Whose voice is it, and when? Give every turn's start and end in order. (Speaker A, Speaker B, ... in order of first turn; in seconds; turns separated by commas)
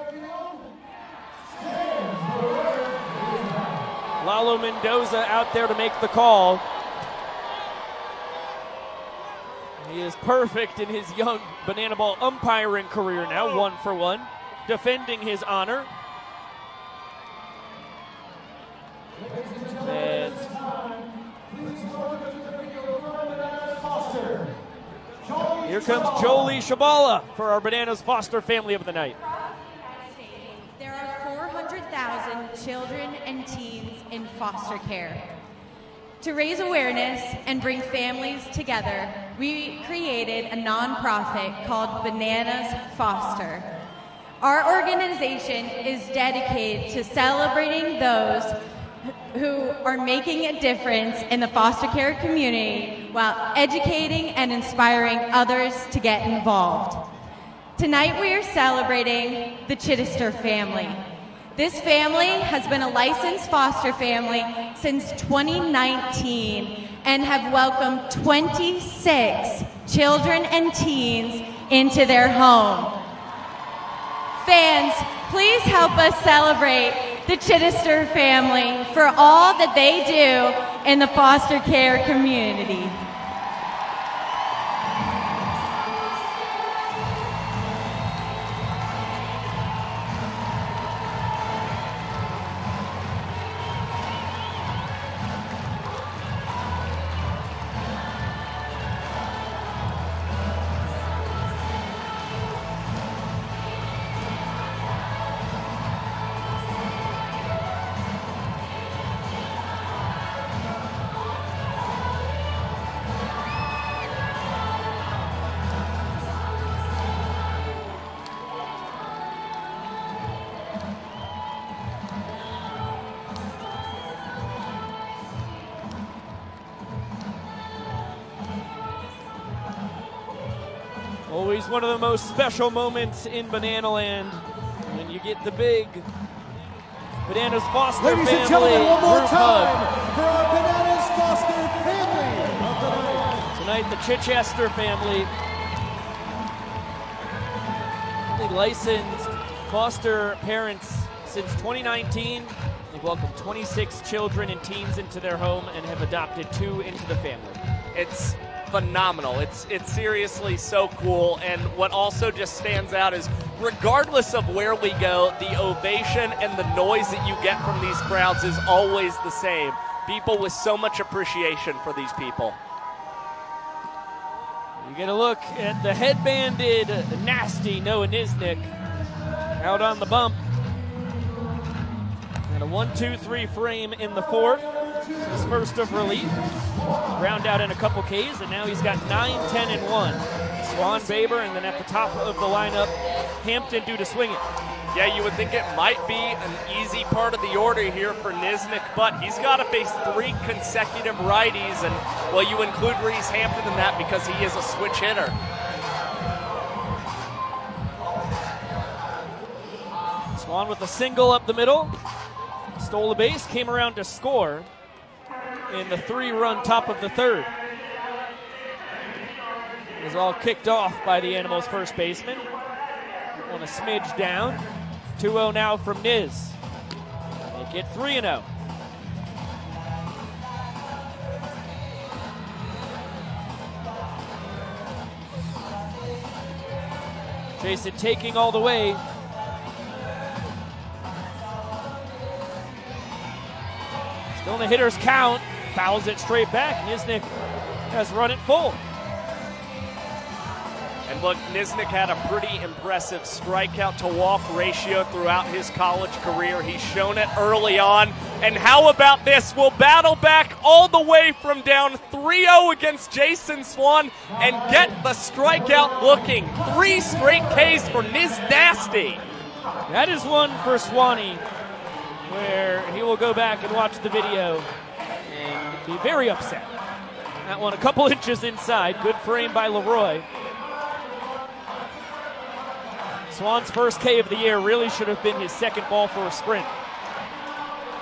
Speaker A: 4.2-6.6, Speaker A: 9.8-15.9, Speaker A: 19.8-20.5, Speaker A: 25.6-29.2, Speaker B: 30.1-35.4, Speaker B: 36.2-43.7, Speaker B: 44.4-48.6, Speaker B: 49.3-57.1, Speaker B: 57.8-61.0, Speaker B: 61.5-73.0, Speaker B: 74.4-83.0, Speaker A: 131.3-136.1, Speaker A: 137.3-139.9, Speaker C: 138.0-143.4, Speaker A: 143.5-145.3, Speaker A: 148.3-157.6, Speaker D: 157.9-172.6, Speaker A: 174.8-178.7, Speaker A: 179.6-180.4, Speaker A: 182.5-184.7, Speaker A: 185.2-186.4, Speaker A: 187.1-194.4, Speaker D: 194.9-205.4, Speaker A: 210.3-211.9, Speaker A: 212.8-214.7, Speaker A: 215.7-217.5, Speaker A: 220.0-222.5, Speaker A: 223.3-224.6, Speaker A: 225.2-226.6, Speaker A: 227.5-228.5, Speaker A: 237.6-239.0, Speaker A: 244.3-247.3, Speaker A: 247.9-248.8, Speaker D: 251.1-269.2, Speaker A: 269.9-271.4, Speaker A: 272.3-274.7, Speaker A: 275.3-276.7, Speaker A: 277.4-280.2, Speaker A: 283.3-286.7